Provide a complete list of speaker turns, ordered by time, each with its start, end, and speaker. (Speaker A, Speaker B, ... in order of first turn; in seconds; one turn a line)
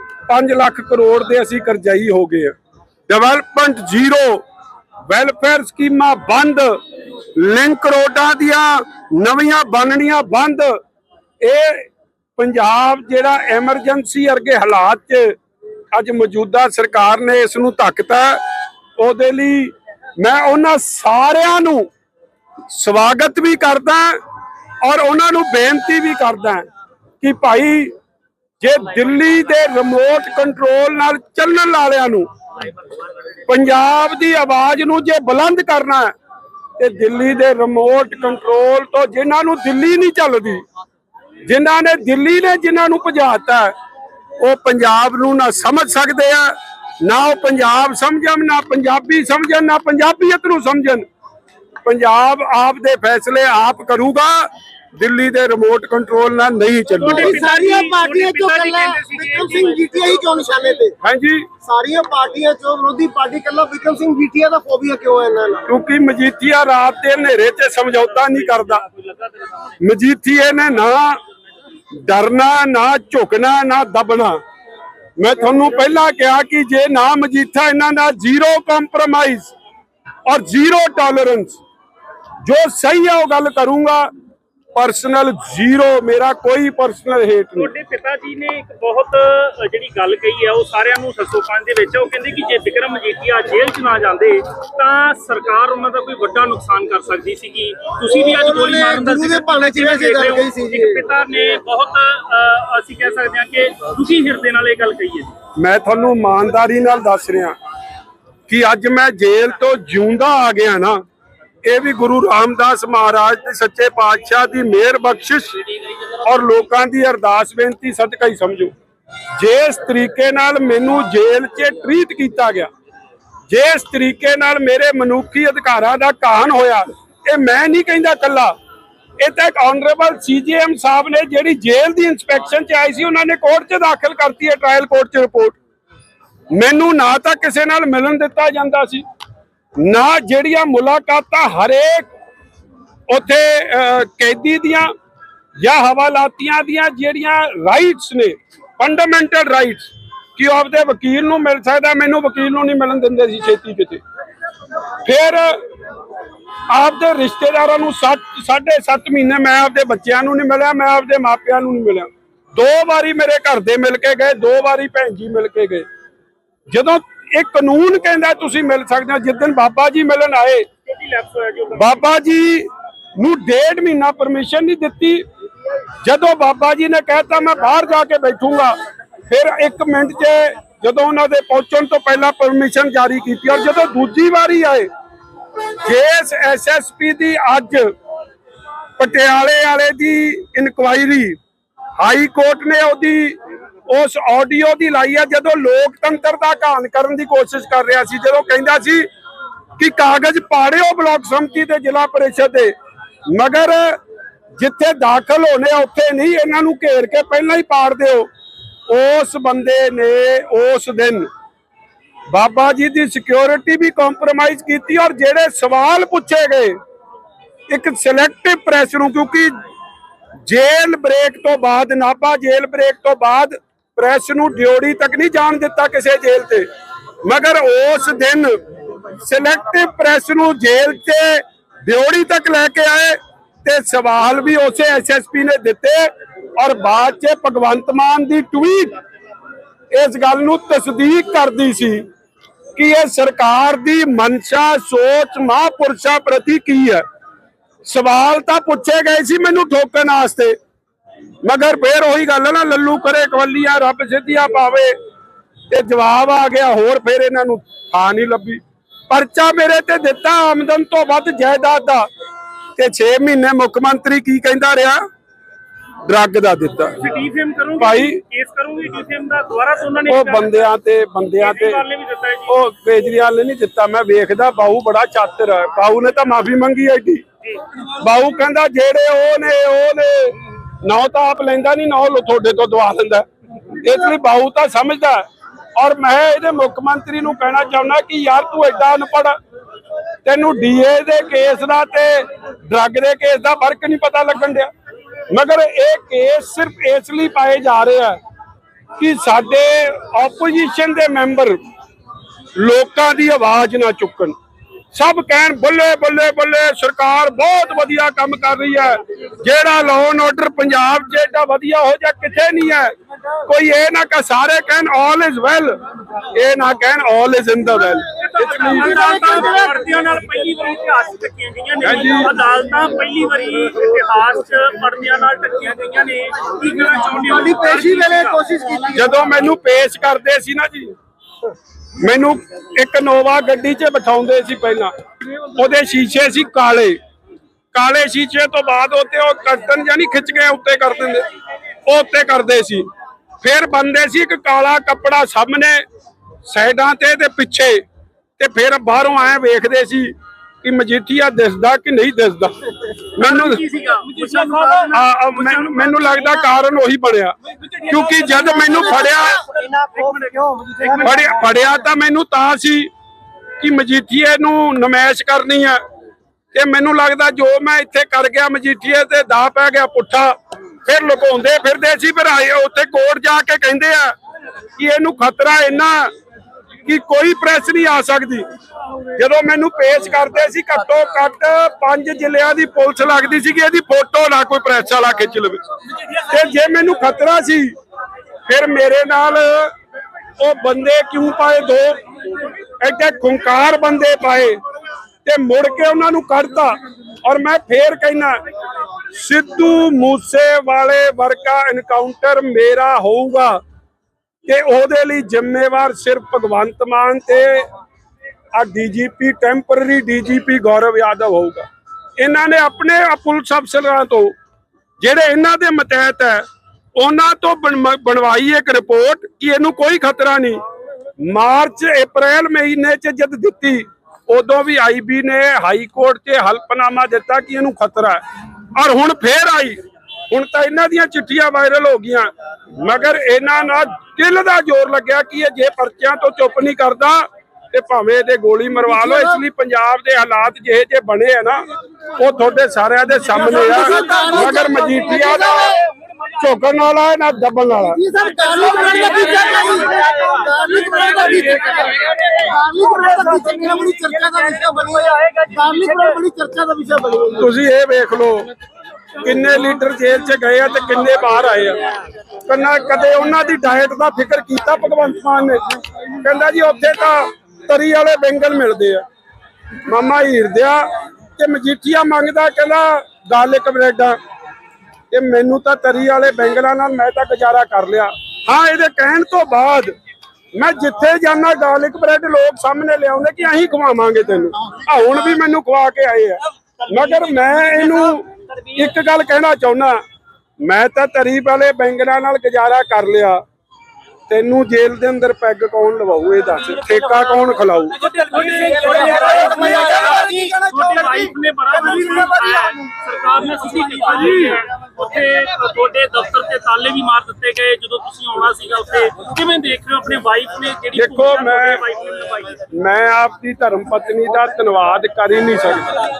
Speaker A: 0.3-2.5
Speaker A: 3.1-4.4
Speaker A: 5.1-6.8
Speaker A: 7.3-10.8
Speaker A: 11.4-15.4
Speaker A: 15.9-18.4
Speaker A: 19.0-21.9
Speaker A: 22.7-24.2
Speaker A: 24.8-26.6
Speaker A: 27.2-27.9
Speaker A: 28.6-32.3
Speaker A: 33.5-36.1
Speaker A: 36.8-40.6
Speaker A: 41.5-43.7
Speaker A: 44.4-51.0
Speaker A: 51.8-57.4
Speaker B: 57.0-60.4
Speaker C: 57.0-60.9
Speaker A: 61.0-61.5
Speaker C: 61.6-65.6
Speaker A: 65.7-68.8
Speaker B: 68.6-69.5
Speaker A: 69.8-71.2
Speaker A: 71.9-74.4
Speaker A: 75.2-79.5
Speaker A: 80.2-81.6
Speaker A: 82.4-84.1
Speaker A: 84.7-87.7
Speaker B: 87.5-105.3
Speaker C: 98.1-101.0
Speaker A: 105.5-107.5
Speaker A: 108.5-111.0
Speaker A: 111.6-115.6
Speaker A: 116.2-118.7
Speaker A: 119.3-122.7
Speaker A: 123.5-128.5
Speaker A: 129.2-135.5
Speaker A: 136.5-139.0
Speaker A: 139.8-142.1
Speaker A: 143.1-144.9
Speaker A: 145.6-154.0
Speaker A: 155.0-155.6
Speaker A: 156.7-165.8
Speaker A: 166.7-170.7
Speaker B: 170.9-172.0
Speaker A: 171.7-175.2
Speaker A: 176.0-178.8
Speaker A: 179.3-184.9
Speaker A: 185.8-187.9
Speaker A: 189.0-191.4
Speaker A: 192.0-193.3
Speaker A: 193.9-199.1
Speaker A: 199.8-202.7
Speaker A: 203.3-204.0
Speaker A: 204.6-208.3
Speaker A: 208.9-211.3
Speaker A: 212.3-216.8
Speaker A: 217.7-219.5
Speaker A: 220.4-226.7
Speaker A: 227.2-228.5
Speaker A: 229.1-238.9
Speaker A: 239.9-242.0
Speaker A: 242.8-247.0
Speaker A: 247.8-250.5
Speaker A: 251.4-254.9
Speaker A: 255.7-262.1
Speaker A: 262.8-265.0
Speaker A: 266.0-267.0
Speaker B: 267.0-270.7
Speaker A: 267.8-268.2
Speaker A: 270.1-271.8
Speaker B: 271.4-272.5
Speaker A: 272.4-277.2
Speaker A: 278.0-283.3
Speaker A: 283.8-285.2
Speaker A: 285.8-289.4
Speaker A: 290.2-294.7
Speaker A: 295.3-298.2
Speaker A: 299.0-301.6
Speaker A: 302.6-304.3
Speaker A: 304.9-312.9
Speaker A: 313.5-315.8
Speaker A: 316.3-319.0
Speaker B: 318.2-328.4
Speaker C: 318.9-319.7
Speaker A: 321.8-322.3
Speaker C: 327.1-329.2
Speaker A: 328.9-330.9
Speaker A: 332.0-334.9
Speaker A: 335.5-337.0
Speaker A: 337.7-341.2
Speaker A: 341.9-342.9
Speaker A: 343.4-345.8
Speaker A: 346.4-347.8
Speaker A: 348.4-352.5
Speaker A: 353.1-353.6
Speaker B: 353.2-356.3
Speaker C: 354.5-354.7
Speaker A: 354.9-359.4
Speaker C: 358.6-361.3
Speaker A: 361.0-362.9
Speaker A: 363.6-365.8
Speaker A: 366.5-374.1
Speaker A: 374.8-376.1
Speaker A: 376.8-378.5
Speaker A: 379.1-385.6
Speaker A: 386.1-387.7
Speaker A: 388.4-389.7
Speaker A: 390.4-392.0
Speaker A: 392.8-394.6
Speaker A: 395.2-398.4
Speaker A: 399.1-403.6
Speaker A: 404.4-407.7
Speaker A: 408.5-411.7
Speaker A: 412.2-414.3
Speaker A: 415.0-416.4
Speaker A: 416.9-420.6
Speaker A: 421.2-428.2
Speaker A: 428.7-429.8
Speaker A: 430.3-441.6
Speaker C: 438.9-439.4
Speaker A: 442.2-445.7
Speaker C: 443.4-445.8
Speaker A: 446.3-448.0
Speaker C: 447.8-457.5
Speaker B: 448.8-449.8
Speaker B: 450.9-452.1
Speaker B: 454.0-456.0
Speaker A: 457.4-458.5
Speaker A: 459.2-461.8
Speaker A: 462.4-469.0
Speaker A: 469.8-474.2
Speaker A: 475.1-479.9
Speaker A: 480.5-490.0
Speaker A: 490.6-493.4
Speaker A: 494.3-498.0
Speaker B: 498.0-512.6
Speaker C: 498.6-500.8
Speaker C: 502.0-502.3
Speaker A: 510.9-511.8
Speaker A: 512.7-516.0